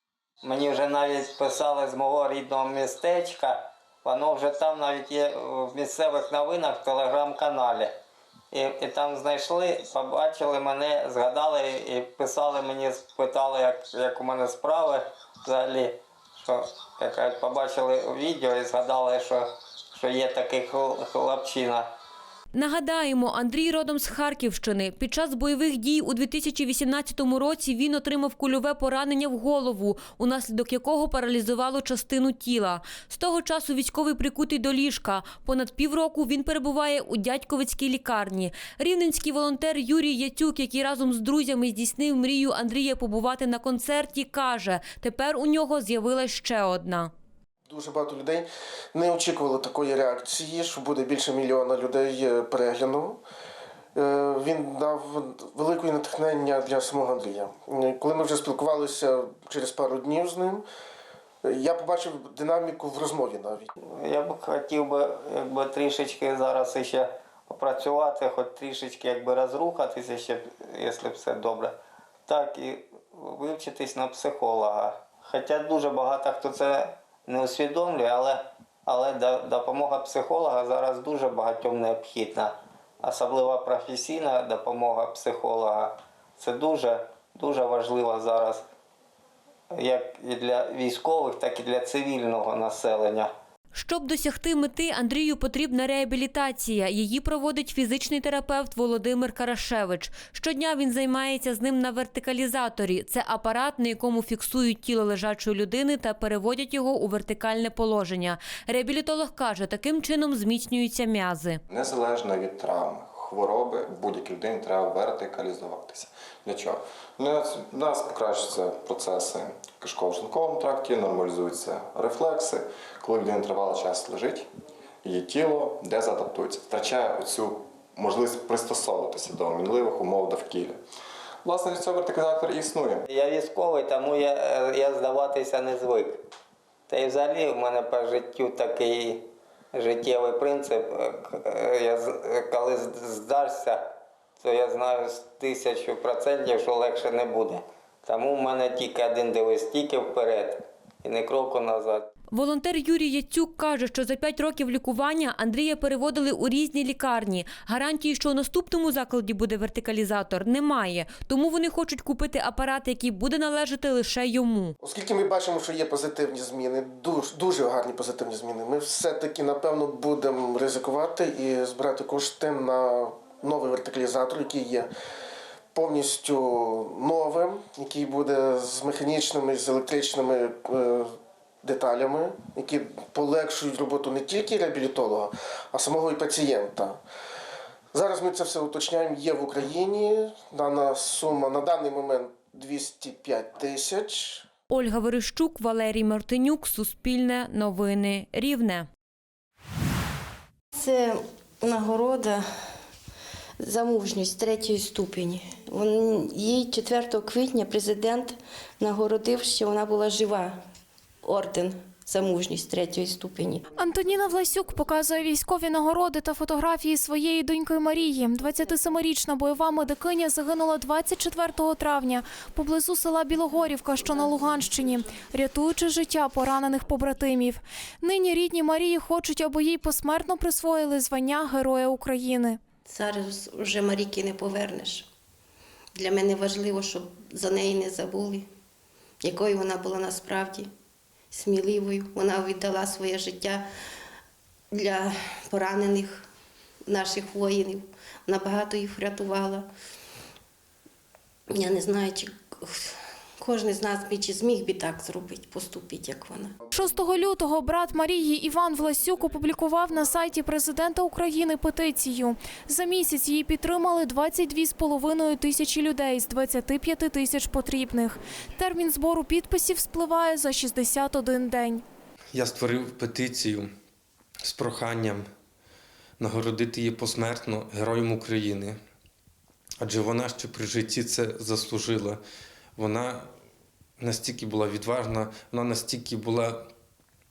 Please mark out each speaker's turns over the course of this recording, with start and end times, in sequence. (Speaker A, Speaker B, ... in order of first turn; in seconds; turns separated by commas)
Speaker A: 0.4-7.9, Speaker A: 8.5-21.9, Speaker B: 22.5-47.1, Speaker C: 47.7-53.2, Speaker C: 54.0-60.6, Speaker C: 61.5-63.7, Speaker A: 64.0-71.8, Speaker A: 72.3-88.6, Speaker A: 89.7-93.3, Speaker B: 93.7-111.6, Speaker D: 111.7-124.5, Speaker D: 125.0-130.8, Speaker D: 131.4-133.0, Speaker A: 133.1-136.2, Speaker A: 136.9-143.8, Speaker A: 144.4-152.1, Speaker B: 152.3-164.7, Speaker C: 164.8-174.9, Speaker C: 175.8-181.1, Speaker C: 181.6-187.0, Speaker C: 187.9-194.4, Speaker B: 194.7-198.9, Speaker E: 200.7-202.4, Speaker E: 203.6-210.6, Speaker E: 211.2-213.6, Speaker F: 213.8-232.6, Speaker E: 232.9-235.1, Speaker E: 236.0-238.5, Speaker E: 239.2-240.7, Speaker E: 241.3-243.7, Speaker E: 244.7-246.2, Speaker E: 246.9-249.7, Speaker E: 251.5-256.5, Speaker F: 256.7-271.8, Speaker G: 272.3-273.7, Speaker G: 274.4-275.3, Speaker G: 276.2-278.8, Speaker G: 279.8-282.2, Speaker G: 282.8-283.3, Speaker G: 284.0-286.7